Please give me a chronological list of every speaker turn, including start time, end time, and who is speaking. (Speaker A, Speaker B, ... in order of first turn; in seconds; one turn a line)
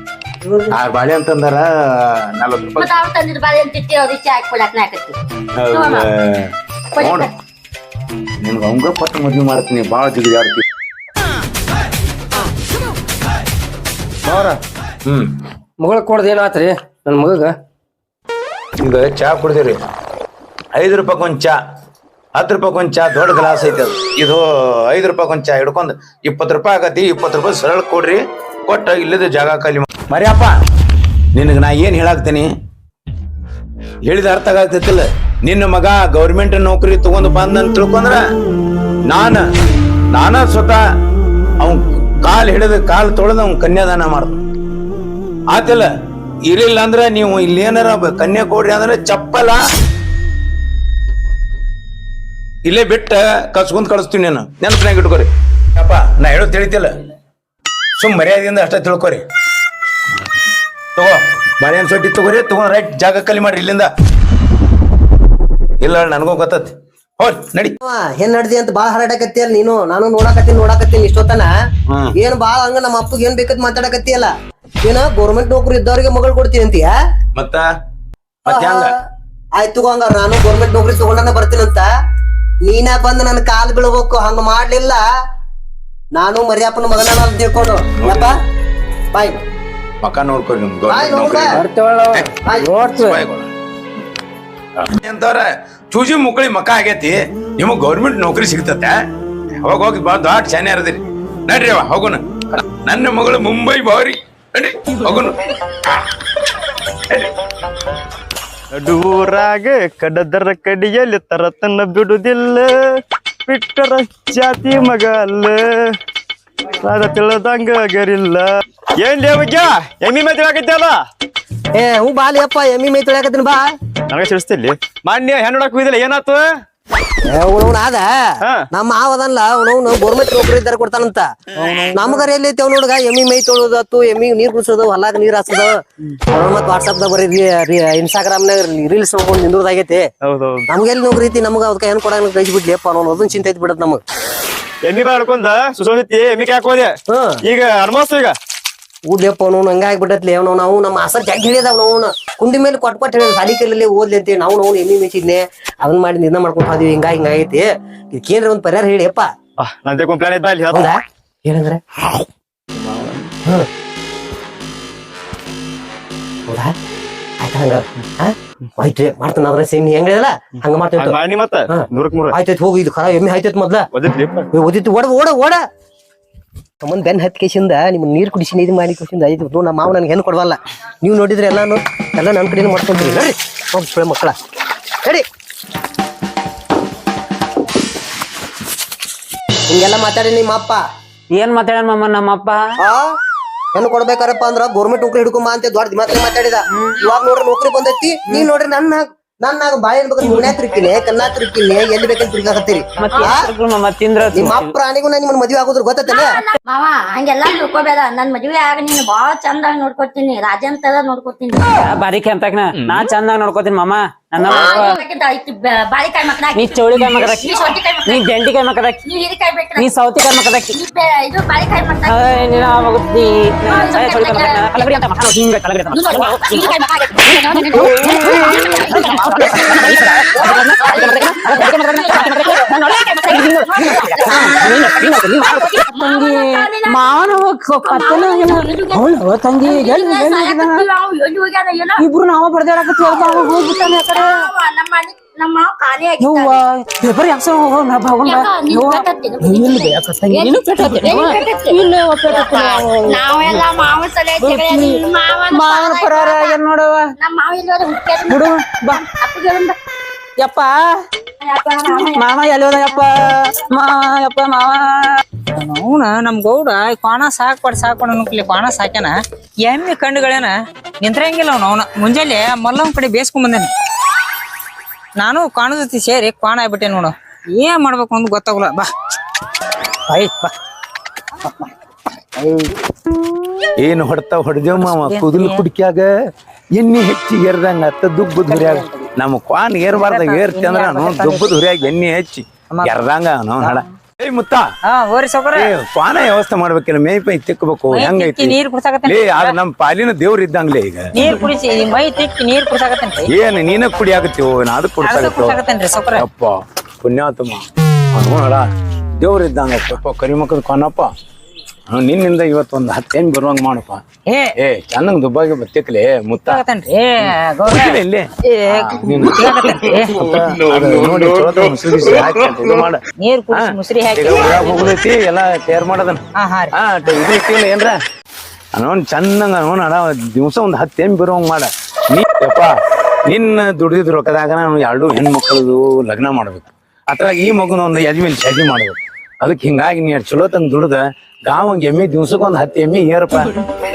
Speaker A: 0.7-2.9
Speaker B: 2.8-5.2
Speaker A: 5.6-7.3
Speaker B: 5.7-6.1
Speaker B: 7.0-7.3
Speaker A: 8.4-10.7
Speaker A: 15.1-15.4
Speaker C: 15.8-17.6
Speaker A: 18.8-19.9
Speaker A: 20.8-21.6
Speaker A: 22.4-30.6
Speaker A: 31.3-32.5
Speaker A: 34.1-38.2
Speaker A: 39.1-39.4
Speaker A: 40.1-40.8
Speaker A: 41.6-44.4
Speaker A: 45.5-45.9
Speaker A: 46.5-49.6
Speaker A: 52.7-57.0
Speaker A: 58.0-59.2
Speaker A: 61.0-63.9
Speaker A: 65.8-67.8
Speaker D: 67.8-71.5
Speaker D: 72.2-74.3
Speaker D: 74.8-76.9
Speaker A: 77.3-77.7
Speaker A: 78.4-78.9
Speaker D: 78.5-79.0
Speaker D: 79.6-81.9
Speaker D: 82.7-85.0
Speaker D: 86.2-88.4
Speaker A: 88.0-88.3
Speaker D: 89.1-89.4
Speaker A: 90.0-91.6
Speaker D: 90.9-91.5
Speaker C: 91.5-93.2
Speaker A: 92.8-93.5
Speaker A: 94.8-99.0
Speaker A: 99.6-105.4
Speaker E: 108.7-112.7
Speaker E: 113.5-115.9
Speaker E: 116.8-118.5
Speaker E: 119.0-121.0
Speaker D: 121.8-123.7
Speaker E: 124.1-126.5
Speaker D: 127.3-131.3
Speaker D: 131.9-135.8
Speaker D: 136.3-140.1
Speaker E: 140.2-140.7
Speaker D: 140.7-144.0
Speaker E: 144.9-146.9
Speaker D: 147.1-147.4
Speaker E: 147.4-148.3
Speaker D: 149.1-159.3
Speaker E: 159.6-160.9
Speaker D: 160.7-161.8
Speaker E: 162.8-163.3
Speaker D: 166.5-166.8
Speaker D: 167.4-171.2
Speaker E: 171.0-172.4
Speaker D: 171.7-173.9
Speaker E: 173.9-174.5
Speaker D: 174.5-175.6
Speaker D: 176.8-184.4
Speaker D: 189.7-190.8
Speaker F: 191.3-192.6
Speaker D: 192.8-193.1
Speaker D: 193.8-203.5
Speaker F: 196.7-197.0
Speaker F: 200.3-200.5
Speaker F: 203.0-204.7
Speaker D: 204.3-206.3
Speaker B: 206.1-211.7
Speaker F: 211.8-215.0
Speaker A: 212.8-213.1
Speaker B: 214.4-218.3
Speaker F: 216.6-219.0
Speaker B: 219.1-219.9
Speaker F: 219.8-220.8
Speaker B: 220.7-222.2
Speaker F: 222.1-226.7
Speaker B: 223.7-224.7
Speaker B: 225.9-237.1
Speaker F: 227.3-240.8
Speaker B: 237.8-239.1
Speaker B: 239.6-242.0
Speaker F: 242.0-244.5
Speaker B: 243.0-246.6
Speaker F: 246.2-253.6
Speaker B: 248.2-256.6
Speaker F: 254.4-255.0
Speaker F: 255.5-257.1
Speaker B: 257.2-259.8
Speaker F: 258.3-259.0
Speaker F: 260.4-261.0
Speaker B: 261.4-262.3
Speaker F: 261.9-265.2
Speaker G: 265.6-273.7
Speaker G: 275.2-278.9
Speaker G: 280.1-280.5
Speaker G: 281.4-281.7
Speaker G: 282.4-282.7
Speaker A: 283.8-286.1
Speaker G: 284.8-285.6
Speaker A: 286.8-294.7
Speaker G: 288.5-289.1
Speaker G: 289.9-291.5
Speaker G: 293.6-293.9
Speaker G: 294.9-295.7
Speaker A: 295.5-301.1
Speaker G: 297.9-299.6
Speaker G: 301.1-303.3
Speaker A: 303.3-305.6
Speaker G: 305.0-306.2
Speaker A: 306.2-308.7
Speaker A: 309.2-311.1
Speaker A: 311.9-314.1
Speaker G: 314.3-314.5
Speaker A: 314.6-316.6
Speaker G: 316.4-320.5
Speaker A: 317.2-328.0
Speaker G: 323.2-324.9
Speaker G: 326.4-327.1
Speaker A: 328.8-343.5